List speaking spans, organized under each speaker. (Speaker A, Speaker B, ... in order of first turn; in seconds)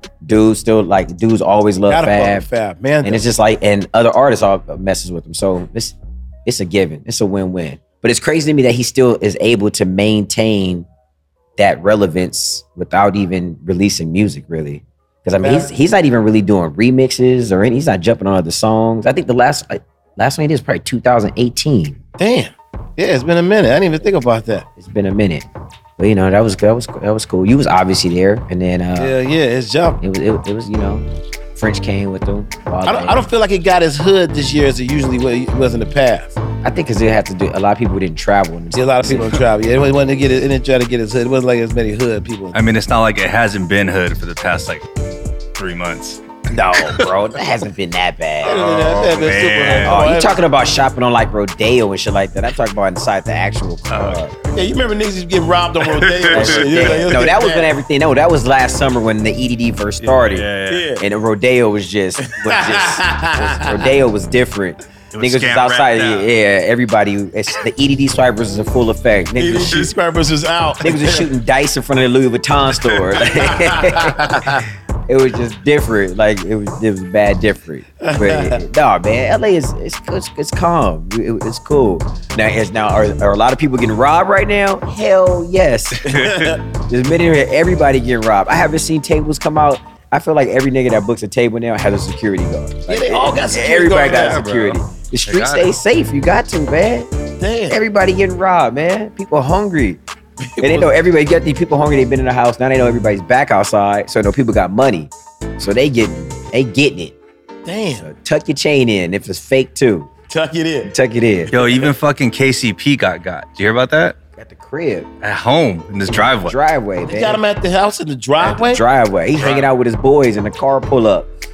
Speaker A: 0.2-2.5, 3.0-10.9, 11.6-22.0, 24.8-25.5, 26.0-29.1, 30.0-33.3, 36.6-39.4, 46.5-48.6, 49.8-54.4, 56.3-70.0, 70.8-97.1, 97.7-100.0, 100.6-107.2, 108.0-110.1, 110.8-111.5, 114.4-115.1, 116.1-117.4, 118.4-121.3
Speaker B: 1.9-3.3, 15.4-15.7, 22.2-24.7, 28.9-30.0, 32.9-36.4, 38.7-42.6, 48.4-50.4, 54.5-57.7, 60.7-61.0, 62.2-63.9, 69.4-71.3, 73.2-74.7, 78.0-78.6, 86.1-86.6, 92.9-94.4, 97.4-97.8, 100.5-101.0, 107.7-108.1, 110.3-110.9, 117.0-118.8
Speaker C: 42.5-44.9, 45.6-47.2, 48.4-50.0, 53.9-54.2, 55.9-57.3, 60.0-60.9, 65.1-66.3, 86.0-86.5, 93.9-95.8, 111.5-114.2, 115.2-116.6, 119.3-119.7